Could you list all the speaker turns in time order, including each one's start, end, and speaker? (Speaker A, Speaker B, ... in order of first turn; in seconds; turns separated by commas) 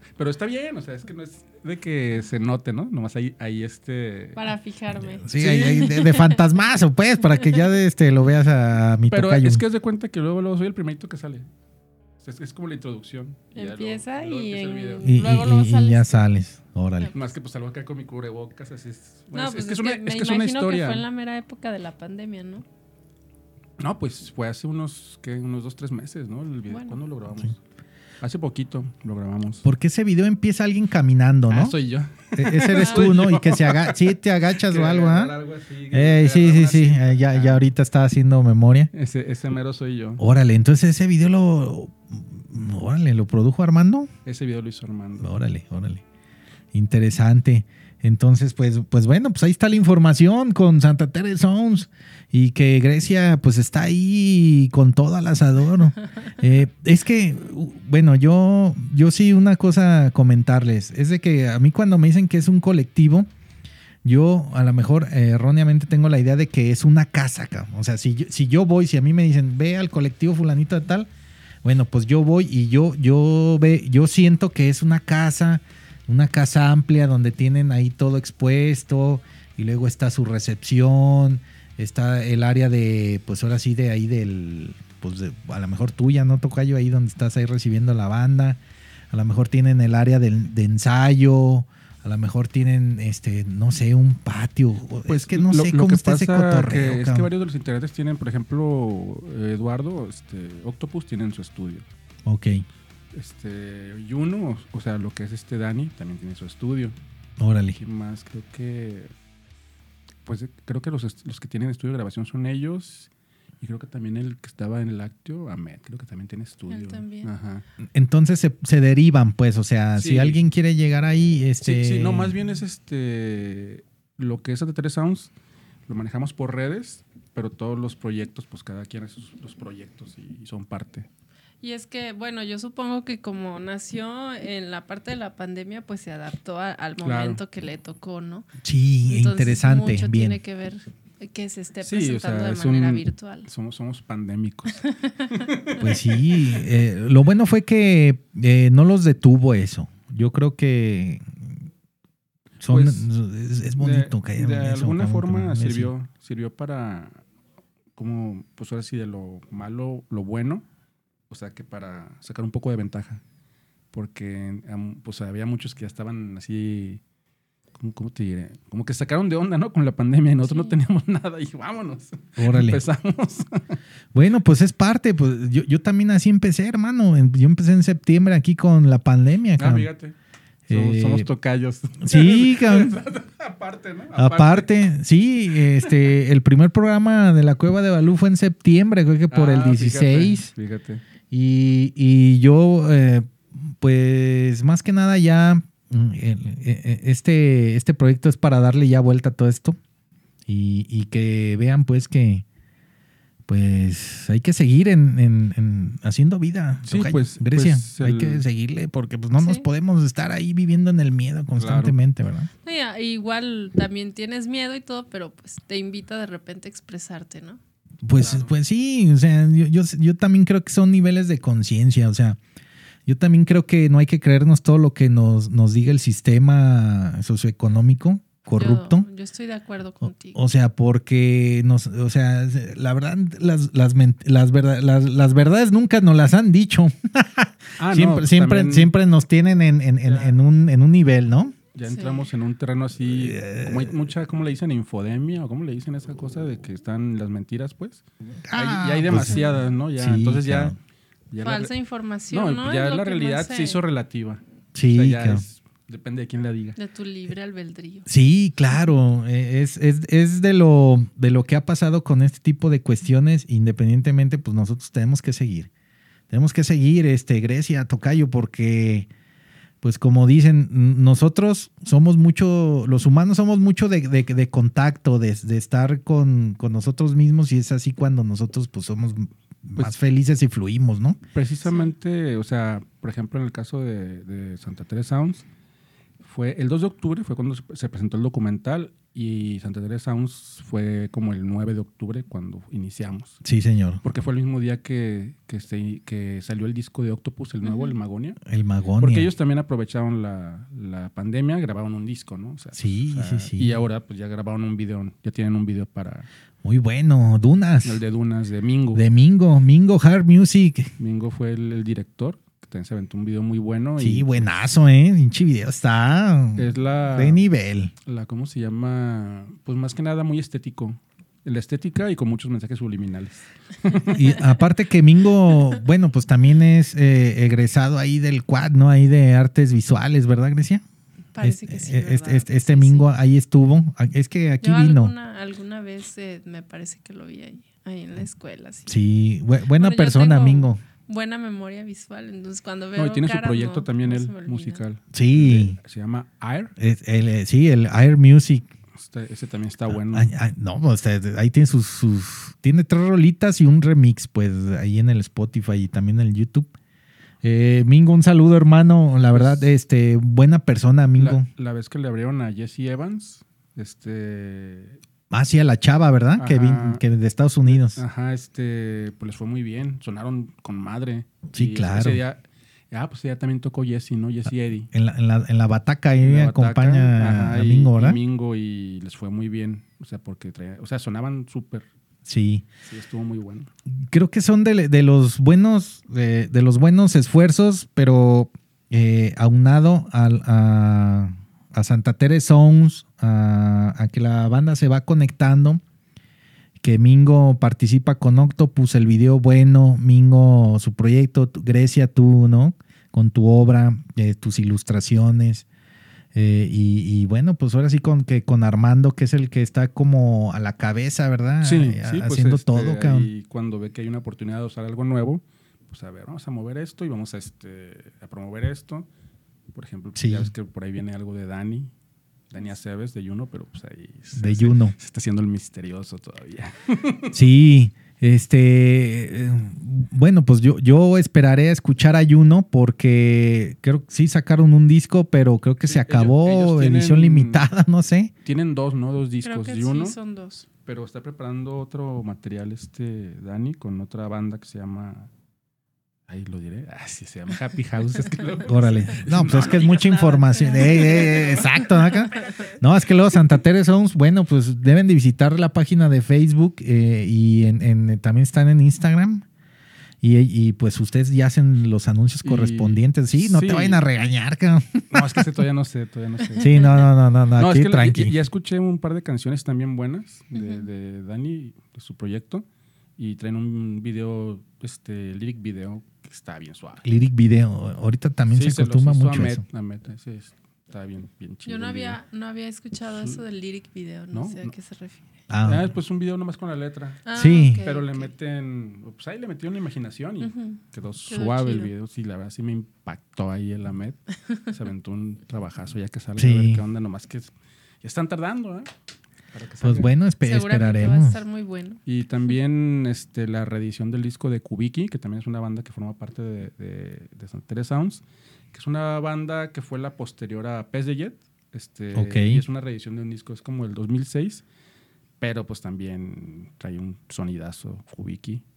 Speaker A: 0.2-4.4, Speaker B: 4.3-6.4, Speaker C: 4.9-9.6, Speaker A: 5.4-6.0, Speaker A: 9.1-11.4, Speaker A: 12.2-15.2, Speaker B: 13.5-16.2, Speaker C: 15.0-17.1, Speaker A: 17.1-21.1, Speaker B: 19.3-22.6, Speaker A: 23.8-27.6, Speaker B: 26.7-27.0, Speaker A: 28.2-29.6, Speaker C: 29.6-31.8, Speaker A: 31.5-37.7, Speaker C: 32.4-35.4, Speaker B: 32.8-33.1, Speaker C: 35.9-38.9, Speaker A: 38.9-40.2, Speaker C: 40.2-44.1, Speaker A: 44.2-45.3, Speaker C: 45.2-46.0, Speaker C: 46.7-63.3, Speaker C: 64.0-71.1, Speaker C: 71.6-88.6, Speaker C: 89.1-97.3, Speaker A: 95.1-101.8, Speaker C: 102.2-102.6, Speaker A: 103.1-107.0, Speaker C: 107.4-107.8, Speaker A: 107.8-109.1, Speaker A: 110.2-113.1, Speaker A: 113.6-117.6, Speaker B: 116.7-117.3, Speaker C: 117.8-122.3, Speaker A: 119.9-120.4, Speaker A: 121.6-125.3, Speaker A: 125.9-131.1, Speaker B: 131.6-138.5, Speaker A: 137.0-137.4, Speaker C: 138.6-140.4, Speaker B: 139.1-143.5, Speaker A: 141.8-145.9, Speaker B: 144.8-145.4, Speaker C: 145.8-151.4, Speaker C: 152.6-155.9, Speaker A: 152.7-153.1, Speaker A: 153.8-157.2, Speaker A: 157.9-160.6, Speaker A: 161.3-163.2, Speaker A: 163.9-167.0, Speaker A: 167.8-173.8, Speaker B: 170.4-170.8, Speaker C: 172.4-172.8, Speaker C: 174.1-179.9, Speaker A: 179.6-180.1, Speaker C: 180.7-181.3, Speaker A: 180.7-184.8, Speaker C: 182.0-183.0, Speaker C: 184.1-190.5, Speaker A: 189.3-191.0, Speaker C: 191.3-199.8, Speaker C: 200.5-202.4, Speaker C: 203.5-212.5, Speaker A: 206.9-208.4, Speaker B: 209.3-209.7, Speaker A: 211.6-211.9, Speaker B: 212.6-217.6, Speaker C: 218.0-222.4, Speaker A: 218.2-218.5, Speaker C: 223.1-229.1, Speaker B: 228.5-230.4, Speaker C: 230.3-241.6, Speaker A: 237.8-238.9, Speaker A: 240.0-240.3, Speaker A: 241.7-250.8, Speaker B: 241.8-242.3, Speaker C: 243.1-243.9, Speaker C: 248.4-250.8, Speaker A: 251.3-251.7, Speaker B: 251.4-253.8, Speaker A: 252.3-256.8, Speaker C: 254.7-255.4, Speaker B: 256.8-258.1, Speaker C: 258.1-265.7, Speaker C: 266.3-269.1, Speaker C: 269.8-281.2, Speaker A: 281.3-285.4, Speaker B: 281.6-281.9, Speaker A: 286.2-293.4, Speaker C: 293.4-294.0, Speaker A: 294.0-298.4, Speaker B: 297.6-297.9, Speaker C: 298.5-299.3, Speaker A: 299.0-306.3, Speaker C: 302.7-303.8, Speaker C: 306.6-308.0, Speaker A: 307.8-309.0, Speaker C: 308.9-310.9, Speaker A: 311.0-314.5, Speaker C: 314.0-317.9, Speaker A: 316.6-317.4, Speaker A: 318.1-324.3, Speaker C: 324.1-330.8, Speaker B: 331.3-333.1, Speaker C: 331.4-335.1, Speaker B: 334.6-339.0, Speaker C: 338.9-340.8, Speaker B: 339.7-344.8, Speaker A: 342.9-346.7, Speaker C: 345.1-345.8, Speaker C: 346.8-348.7, Speaker A: 348.9-350.3, Speaker C: 349.9-356.7, Speaker C: 357.4-361.4, Speaker A: 359.3-359.7, Speaker A: 361.2-365.0, Speaker C: 365.3-368.0, Speaker A: 366.4-367.0, Speaker A: 367.7-374.9, Speaker C: 371.5-372.2, Speaker C: 374.9-378.2, Speaker A: 376.2-381.9, Speaker C: 382.2-382.7, Speaker A: 382.9-383.7, Speaker C: 383.9-395.8, Speaker C: 396.8-405.6, Speaker C: 406.3-413.3, Speaker A: 411.6-419.1, Speaker A: 419.7-421.9, Speaker C: 420.1-420.5, Speaker A: 422.5-427.4, Speaker C: 424.4-424.9, Speaker C: 427.3-438.3, Speaker A: 435.8-437.6, Speaker A: 438.4-440.1, Speaker B: 439.4-440.7, Speaker A: 440.8-445.3, Speaker A: 446.3-451.6, Speaker C: 448.6-459.4, Speaker B: 449.5-452.8, Speaker C: 460.2-465.5, Speaker A: 462.4-464.0, Speaker A: 465.1-467.0, Speaker C: 466.6-468.4, Speaker A: 467.5-472.6, Speaker B: 470.5-470.9, Speaker A: 473.2-477.1, Speaker C: 477.0-479.6, Speaker A: 478.5-482.2, Speaker B: 481.6-485.2, Speaker A: 483.1-483.4, Speaker A: 484.3-484.7, Speaker C: 485.5-485.9, Speaker A: 485.6-498.9, Speaker B: 487.2-488.3, Speaker C: 487.3-487.8, Speaker B: 490.4-491.9, Speaker C: 496.4-496.8, Speaker A: 499.5-500.1, Speaker C: 499.8-501.4, Speaker B: 500.4-502.0, Speaker A: 502.1-514.6, Speaker C: 512.1-512.6, Speaker A: 515.4-518.6